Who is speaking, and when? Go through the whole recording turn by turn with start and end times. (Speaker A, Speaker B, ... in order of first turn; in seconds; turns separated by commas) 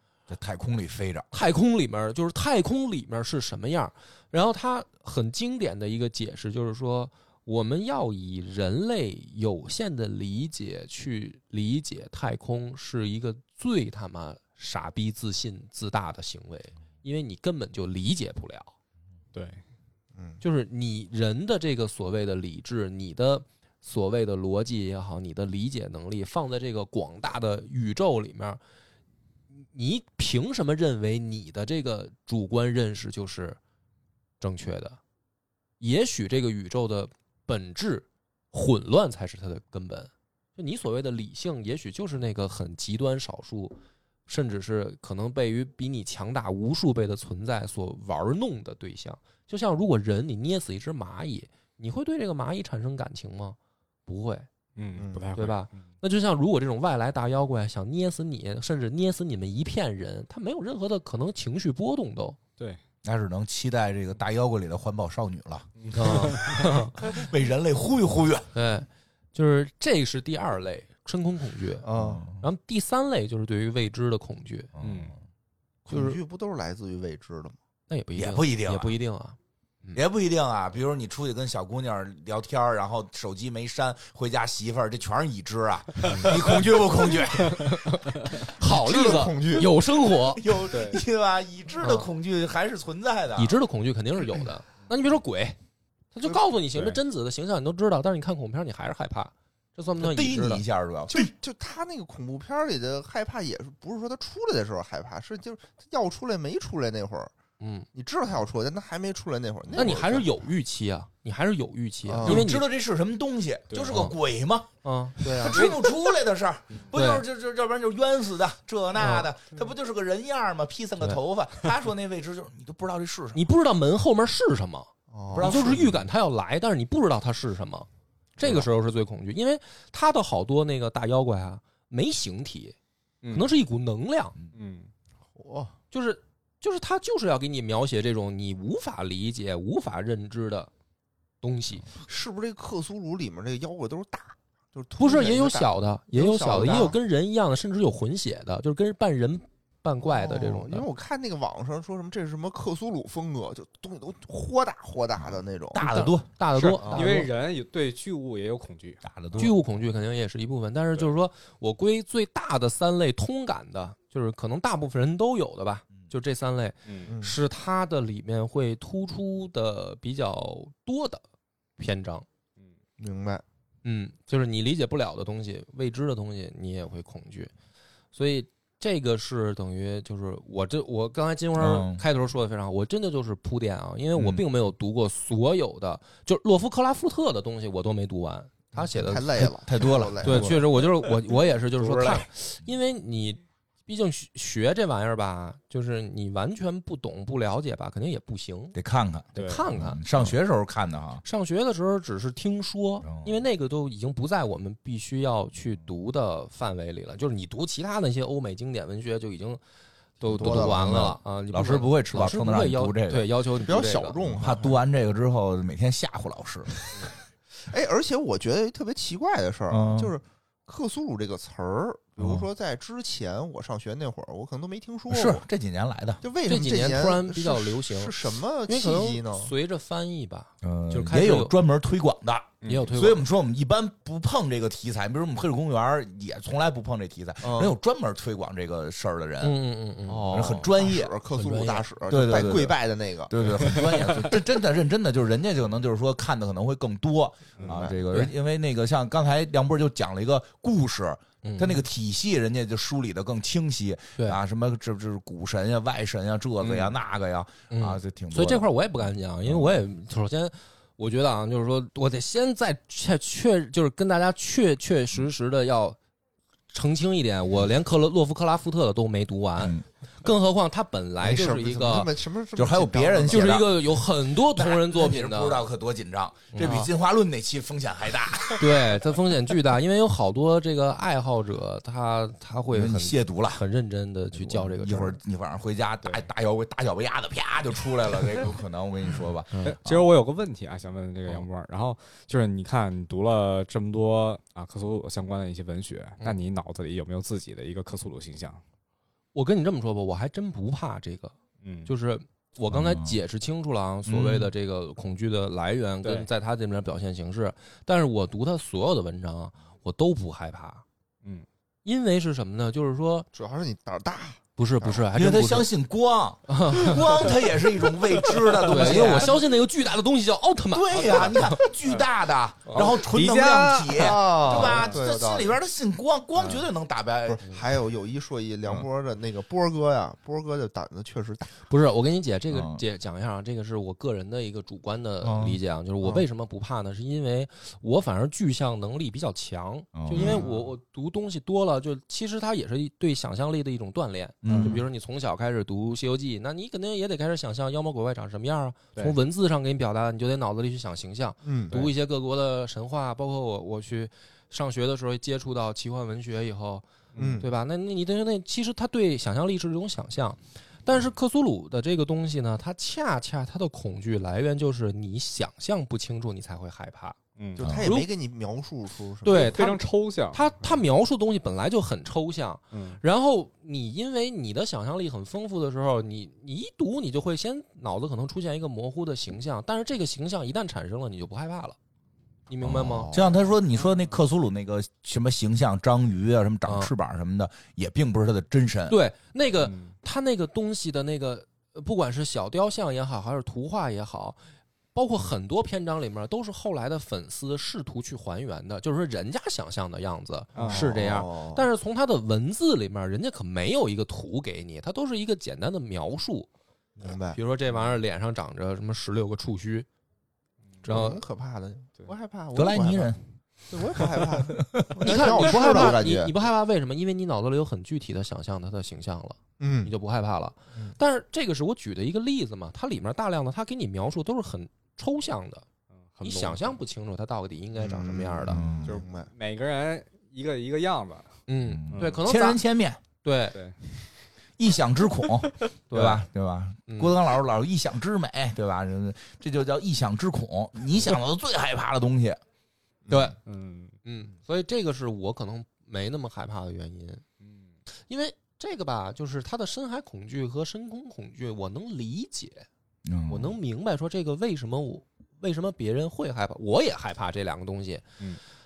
Speaker A: 0.3-1.3, Speaker B: 1.3-18.7, Speaker C: 19.3-19.6, Speaker D: 20.1-20.4, Speaker B: 20.4-28.6, Speaker B: 29.5-33.6, Speaker B: 34.4-35.0, Speaker B: 35.8-54.5, Speaker C: 54.8-55.7, Speaker D: 55.0-55.3, Speaker B: 55.4-62.4, Speaker A: 63.0-68.5, Speaker C: 65.8-66.5, Speaker B: 65.9-67.0, Speaker B: 68.5-71.9, Speaker D: 71.8-72.3, Speaker A: 72.0-72.4, Speaker B: 72.4-74.7, Speaker A: 74.8-75.2, Speaker C: 74.8-75.2, Speaker D: 75.9-77.6, Speaker B: 75.9-76.2, Speaker B: 77.9-80.0, Speaker A: 78.2-79.0, Speaker A: 79.9-87.8, Speaker B: 86.0-86.4, Speaker B: 87.5-90.5, Speaker D: 88.4-89.7, Speaker A: 90.3-93.6, Speaker C: 90.7-91.0, Speaker B: 91.8-92.1, Speaker B: 93.4-95.6, Speaker B: 96.1-100.6, Speaker A: 100.0-101.3, Speaker D: 101.1-107.3, Speaker B: 107.6-107.9, Speaker D: 107.9-110.3, Speaker B: 109.7-112.6, Speaker D: 112.1-112.5, Speaker A: 112.2-114.7, Speaker C: 113.7-114.1, Speaker B: 114.8-115.7, Speaker D: 115.2-115.8, Speaker A: 115.4-123.5, Speaker B: 116.9-117.2, Speaker B: 119.0-119.3, Speaker B: 123.3-127.9, Speaker D: 125.1-125.8, Speaker A: 125.3-126.0, Speaker B: 128.4-132.8, Speaker C: 133.2-133.5, Speaker B: 133.3-134.3, Speaker C: 134.6-134.9, Speaker D: 135.4-135.8, Speaker B: 135.9-140.7, Speaker B: 141.4-141.9, Speaker D: 142.0-147.0, Speaker B: 145.0-150.9, Speaker D: 150.0-155.8, Speaker A: 155.2-156.3, Speaker B: 155.8-157.3, Speaker C: 156.6-159.0, Speaker D: 156.8-157.2, Speaker A: 159.0-159.5, Speaker B: 159.4-171.2, Speaker C: 166.9-167.1, Speaker D: 167.1-167.4, Speaker B: 171.8-172.3, Speaker D: 173.0-173.4, Speaker B: 173.8-177.5, Speaker B: 178.1-189.5, Speaker A: 181.6-182.0, Speaker A: 184.2-184.4, Speaker D: 188.8-190.6, Speaker A: 189.3-190.6, Speaker B: 190.2-198.8, Speaker A: 191.8-192.3, Speaker A: 198.8-201.2, Speaker C: 199.4-199.7, Speaker B: 199.4-200.0, Speaker B: 201.2-209.6, Speaker A: 203.0-203.3, Speaker B: 210.2-214.2, Speaker D: 210.3-211.1, Speaker A: 210.3-213.4, Speaker D: 213.6-214.8, Speaker A: 214.4-216.8, Speaker D: 217.6-225.4, Speaker A: 219.7-220.1, Speaker A: 222.2-222.5, Speaker A: 225.1-226.2, Speaker D: 226.2-229.5, Speaker B: 226.5-231.6, Speaker A: 230.6-239.6, Speaker C: 232.6-232.9, Speaker B: 232.7-233.2, Speaker D: 237.4-237.8, Speaker B: 239.4-240.3, Speaker D: 240.1-243.8, Speaker A: 240.3-241.2, Speaker B: 241.3-241.9, Speaker A: 242.1-258.7, Speaker C: 243.4-244.3, Speaker C: 247.6-247.9, Speaker D: 247.7-248.0, Speaker B: 251.4-251.8, Speaker C: 256.6-256.9, Speaker B: 257.7-266.0, Speaker A: 259.4-259.8, Speaker B: 266.7-272.1, Speaker A: 269.6-269.8, Speaker D: 271.2-273.6, Speaker A: 272.6-278.9, Speaker B: 273.3-275.6, Speaker B: 276.5-276.9, Speaker D: 276.6-276.9, Speaker B: 278.6-285.2, Speaker A: 282.7-283.6, Speaker A: 284.3-290.1, Speaker C: 289.6-298.6, Speaker B: 299.3-301.3, Speaker C: 301.6-301.9, Speaker B: 301.9-310.9, Speaker A: 302.7-303.2, Speaker A: 304.1-304.5, Speaker C: 306.0-306.3, Speaker B: 311.9-313.3, Speaker D: 313.3-315.1, Speaker B: 314.6-315.7, Speaker A: 315.1-319.4, Speaker B: 316.5-317.3, Speaker B: 318.6-321.7, Speaker D: 318.8-319.2, Speaker A: 320.7-327.4, Speaker C: 322.8-324.9, Speaker D: 323.9-325.6, Speaker B: 324.5-324.8, Speaker D: 327.3-331.6, Speaker B: 331.7-356.9, Speaker A: 332.5-332.8, Speaker A: 335.2-335.6, Speaker A: 339.9-340.5, Speaker D: 340.2-340.4, Speaker C: 340.2-340.7, Speaker A: 344.4-344.8, Speaker C: 344.5-344.8, Speaker D: 351.4-351.8, Speaker C: 357.1-357.4, Speaker D: 357.2-357.5, Speaker B: 357.4-367.2, Speaker C: 367.4-367.6, Speaker D: 367.6-369.6, Speaker A: 367.6-367.9, Speaker B: 367.8-368.1, Speaker C: 369.2-370.4, Speaker B: 369.2-381.8, Speaker C: 372.7-373.0, Speaker B: 382.5-383.1, Speaker A: 382.7-389.0, Speaker D: 382.8-383.5, Speaker B: 386.7-386.9, Speaker B: 388.9-394.4, Speaker C: 389.6-389.9, Speaker B: 394.9-406.5, Speaker C: 400.6-400.9, Speaker D: 400.6-401.7, Speaker D: 407.0-407.4, Speaker B: 407.3-409.9, Speaker B: 410.8-411.2, Speaker D: 410.9-413.1, Speaker A: 412.5-413.2, Speaker D: 413.7-416.3, Speaker A: 414.0-415.2, Speaker B: 415.0-425.6, Speaker D: 419.6-419.9, Speaker C: 426.1-426.7, Speaker B: 426.2-428.6, Speaker D: 427.8-429.3, Speaker A: 428.5-429.0, Speaker C: 428.6-431.4, Speaker B: 431.5-432.6, Speaker A: 431.7-433.0, Speaker C: 431.9-432.2, Speaker B: 433.2-433.6, Speaker A: 434.6-442.4, Speaker B: 435.9-436.3, Speaker B: 436.9-437.2, Speaker B: 443.1-443.4, Speaker C: 443.4-443.9, Speaker B: 444.0-447.2, Speaker C: 447.4-447.7, Speaker B: 447.9-452.7, Speaker A: 453.1-453.5, Speaker B: 453.3-458.1